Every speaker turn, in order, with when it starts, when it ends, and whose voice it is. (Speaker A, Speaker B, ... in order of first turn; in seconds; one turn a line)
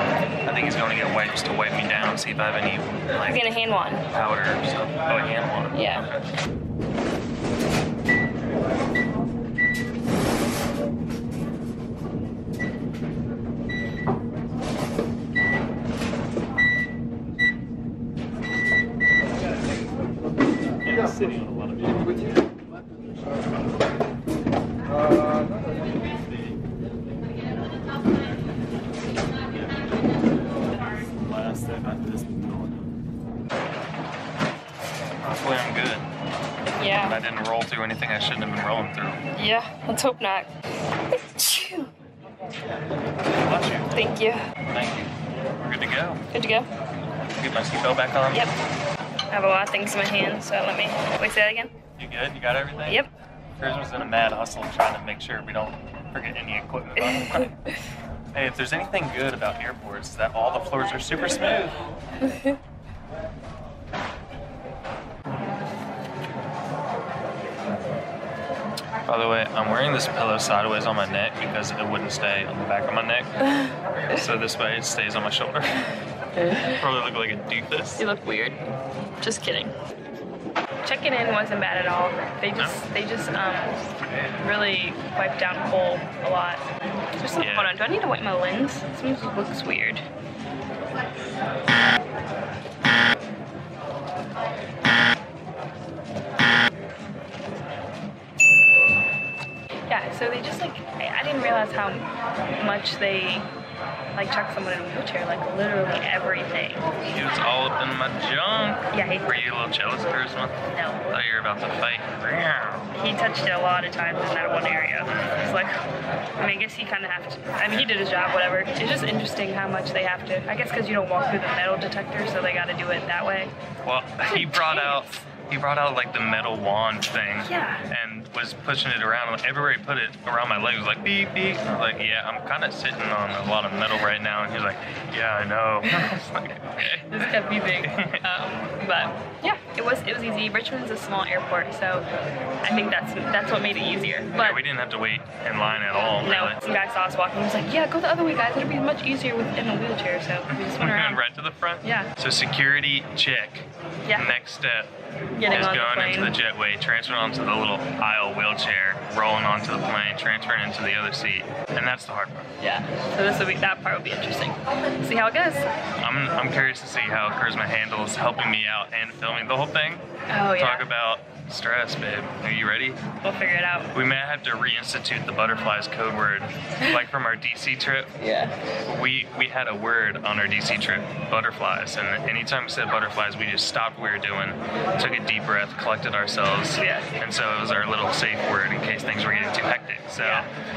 Speaker A: 0.5-3.0
Speaker B: 3.1-4.0
Speaker A: 4.1-6.2
Speaker B: 5.7-6.1
Speaker A: 20.8-22.2
Speaker A: 31.1-32.8
Speaker A: 35.2-36.1
Speaker B: 36.8-37.2
Speaker A: 37.1-39.2
Speaker B: 39.4-40.5
Speaker B: 41.1-41.9
Speaker A: 43.4-43.9
Speaker B: 43.9-44.5
Speaker A: 44.7-46.2
Speaker B: 46.3-46.7
Speaker A: 47.4-48.5
Speaker B: 48.3-48.5
Speaker B: 49.3-51.7
Speaker A: 52.0-53.0
Speaker A: 53.6-57.5
Speaker B: 57.0-57.7
Speaker A: 58.3-61.8
Speaker A: 69.0-73.3
Speaker A: 74.1-75.9
Speaker B: 76.4-76.8
Speaker A: 76.7-78.0
Speaker B: 78.0-78.6
Speaker B: 79.2-79.7
Speaker B: 80.8-83.9
Speaker B: 84.4-90.0
Speaker A: 87.4-87.7
Speaker B: 99.9-102.1
Speaker B: 102.6-103.5
Speaker B: 104.2-106.9
Speaker A: 107.0-112.8
Speaker B: 108.9-109.3
Speaker B: 110.7-111.1
Speaker B: 112.9-115.8
Speaker A: 115.1-115.4
Speaker B: 116.4-123.5
Speaker A: 117.7-117.9
Speaker A: 123.8-137.3
Speaker B: 124.2-125.2
Speaker B: 127.4-127.8
Speaker B: 137.1-142.1
Speaker A: 137.8-138.2
Speaker B: 142.6-144.6
Speaker A: 144.4-146.6
Speaker B: 146.2-151.2
Speaker A: 150.5-154.9
Speaker B: 151.8-152.1
Speaker B: 155.4-156.4
Speaker A: 155.5-162.5
Speaker B: 162.6-165.7
Speaker A: 166.0-173.0
Speaker B: 170.3-170.9
Speaker B: 173.2-173.9
Speaker A: 173.9-178.1
Speaker B: 178.2-178.6
Speaker A: 178.8-190.5
Speaker B: 186.7-187.1
Speaker B: 190.2-190.5